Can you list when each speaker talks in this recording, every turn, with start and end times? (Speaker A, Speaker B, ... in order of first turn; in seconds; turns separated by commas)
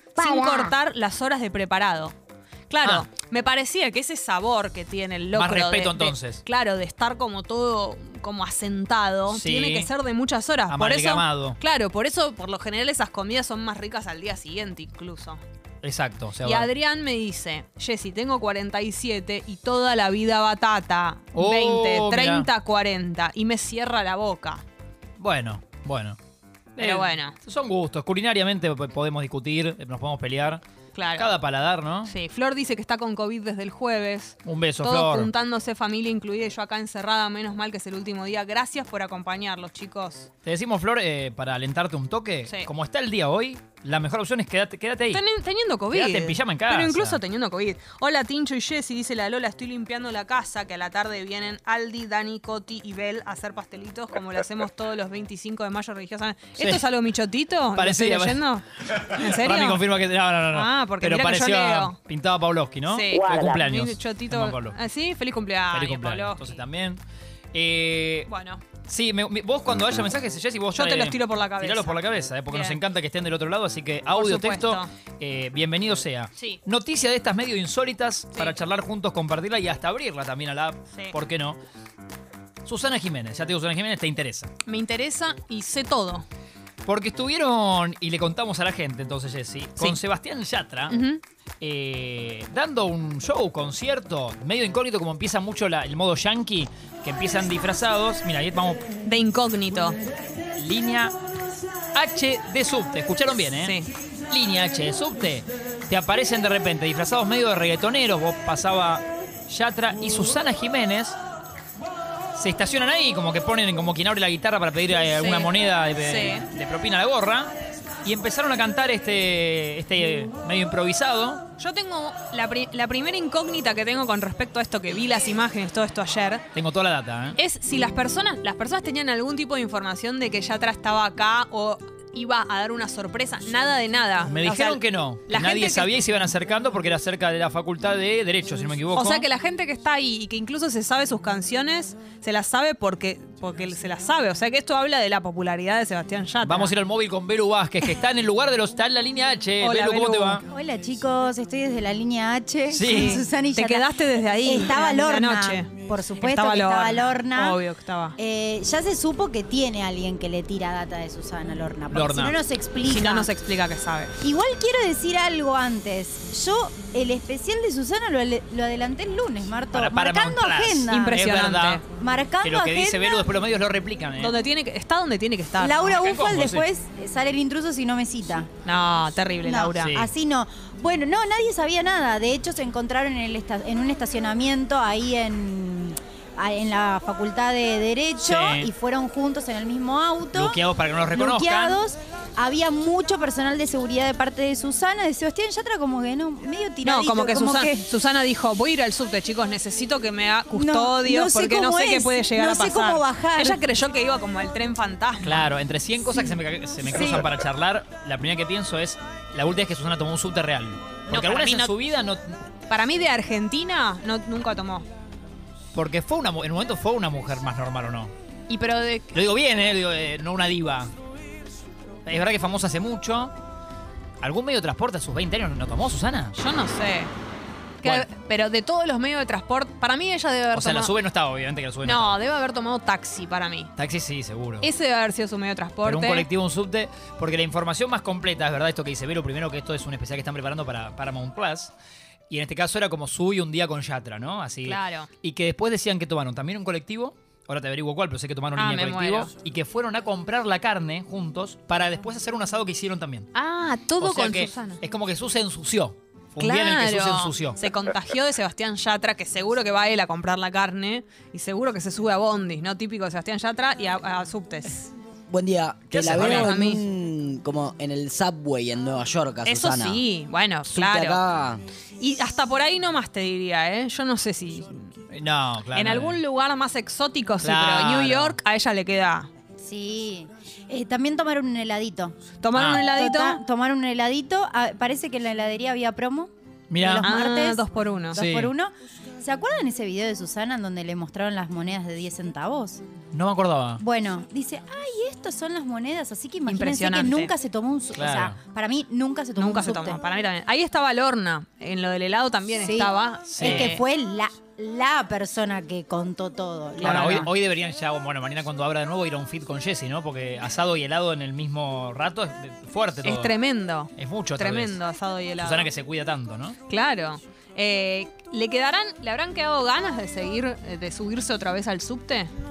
Speaker A: 0.2-2.1, Speaker B: 0.2-0.7, Speaker A: 2.7-15.4, Speaker C: 5.3-6.4, Speaker C: 9.3-9.9, Speaker C: 10.7-11.6, Speaker C: 15.8-16.7, Speaker A: 16.4-24.6, Speaker C: 21.3-22.5, Speaker C: 25.2-26.2, Speaker C: 26.8-30.6, Speaker A: 26.8-27.4, Speaker A: 30.9-31.3, Speaker C: 31.1-32.1, Speaker A: 32.1-40.3, Speaker C: 34.5-35.3, Speaker C: 40.5-45.2, Speaker A: 45.1-59.9, Speaker C: 45.9-47.2, Speaker C: 56.6-56.9, Speaker C: 57.7-64.8, Speaker A: 60.5-62.0, Speaker A: 62.9-66.6, Speaker C: 65.7-67.0, Speaker C: 67.5-68.3, Speaker A: 68.3-68.6, Speaker C: 68.9-81.6, Speaker A: 70.7-72.8, Speaker A: 74.1-74.9, Speaker C: 82.7-84.5, Speaker A: 84.7-86.2, Speaker C: 86.8-91.0, Speaker A: 90.9-91.2, Speaker C: 91.6-98.8, Speaker A: 99.0-100.0, Speaker C: 100.6-101.2, Speaker C: 101.9-103.8, Speaker A: 103.6-103.9, Speaker C: 104.3-111.2, Speaker C: 112.3-117.5, Speaker A: 115.1-116.5, Speaker C: 118.0-121.4, Speaker A: 121.6-126.4, Speaker C: 126.5-127.4, Speaker A: 127.4-135.9, Speaker C: 134.3-139.2, Speaker A: 138.9-146.7, Speaker C: 146.4-150.4, Speaker A: 149.6-150.4, Speaker B: 150.5-153.9, Speaker C: 152.7-153.2, Speaker A: 152.8-158.2, Speaker B: 154.4-157.6, Speaker B: 158.2-163.3, Speaker C: 161.9-162.3, Speaker A: 162.8-164.2, Speaker B: 164.2-171.3, Speaker C: 169.7-171.8, Speaker A: 170.9-171.8, Speaker B: 171.9-173.3, Speaker C: 172.4-174.4, Speaker A: 174.2-176.1, Speaker B: 175.6-178.5, Speaker C: 176.0-176.7, Speaker A: 178.7-180.0, Speaker B: 179.4-190.6, Speaker C: 179.8-180.1, Speaker C: 188.2-188.7, Speaker C: 190.3-191.8, Speaker B: 191.1-197.8, Speaker A: 196.8-205.5, Speaker B: 200.5-203.6, Speaker C: 205.2-212.4, Speaker B: 206.1-207.3, Speaker A: 211.1-211.7, Speaker A: 212.7-214.9, Speaker C: 215.7-218.1, Speaker A: 218.5-219.1, Speaker C: 219.1-220.9, Speaker C: 222.1-223.3, Speaker C: 224.2-226.4, Speaker A: 226.4-227.1, Speaker A: 227.8-230.9, Speaker C: 230.5-232.2, Speaker A: 231.8-233.7, Speaker C: 233.8-234.7, Speaker A: 234.6-236.3, Speaker C: 235.8-241.7, Speaker C: 242.3-253.3, Speaker A: 244.7-245.1, Speaker A: 248.6-249.3, Speaker A: 253.3-254.8, Speaker C: 254.0-257.6, Speaker A: 256.4-264.9, Speaker D: 265.3-270.1, Speaker C: 265.9-266.6, Speaker A: 266.0-266.8, Speaker A: 269.4-271.2, Speaker D: 270.7-271.6, Speaker A: 272.0-274.9, Speaker C: 275.1-276.2, Speaker A: 275.7-279.3, Speaker C: 277.4-278.4, Speaker B: 279.6-282.2, Speaker A: 282.4-283.4, Speaker C: 282.6-282.9, Speaker B: 282.8-292.8, Speaker C: 286.7-287.1, Speaker A: 287.0-288.2, Speaker C: 288.1-288.5, Speaker C: 293.1-293.8, Speaker B: 293.8-300.0, Speaker A: 296.5-297.3, Speaker C: 297.9-298.4, Speaker A: 299.4-303.8, Speaker B: 302.6-307.3, Speaker C: 303.3-303.8, Speaker C: 306.8-313.3, Speaker A: 306.8-307.3, Speaker A: 313.0-315.7, Speaker C: 314.0-314.8, Speaker C: 315.4-316.6, Speaker A: 316.7-322.3